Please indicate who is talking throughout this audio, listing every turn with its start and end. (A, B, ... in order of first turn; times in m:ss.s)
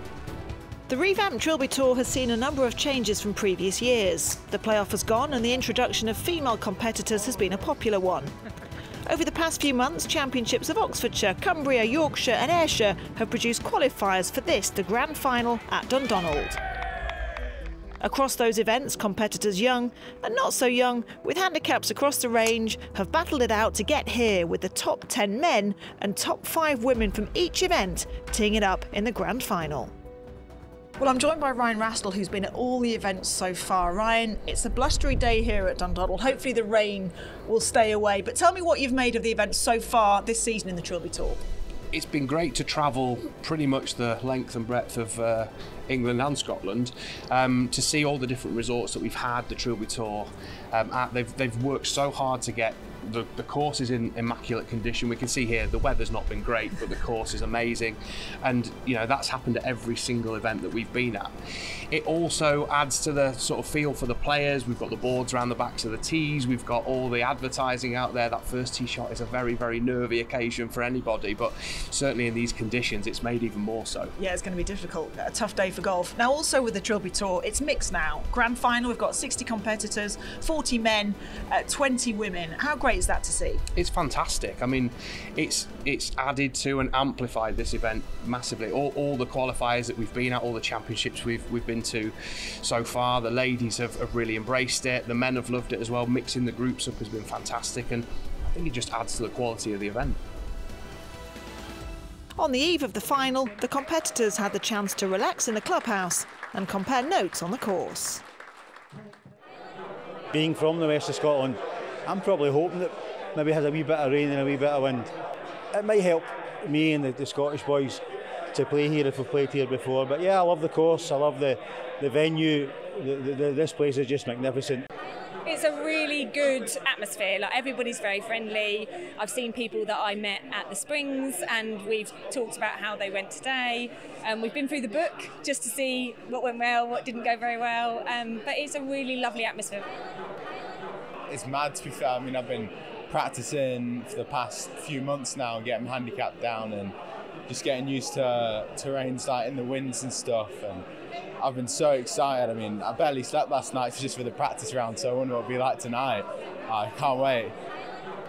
0:00.9-0:08.3 A
0:09.0-0:16.6 A
0:18.0-0:29.9 A
0:31.0-0:41.4 A
0:41.9-1:01.3 B
1:01.9-1:14.1 B
1:14.2-1:23.6 A
1:23.8-1:40.2 B
1:42.4-1:48.2 A
1:50.3-1:55.1 C
1:55.7-2:04.8 C
2:05.4-2:19.9 D
2:21.3-2:27.0 E
2:27.5-2:30.9 E
2:31.4-2:37.6 E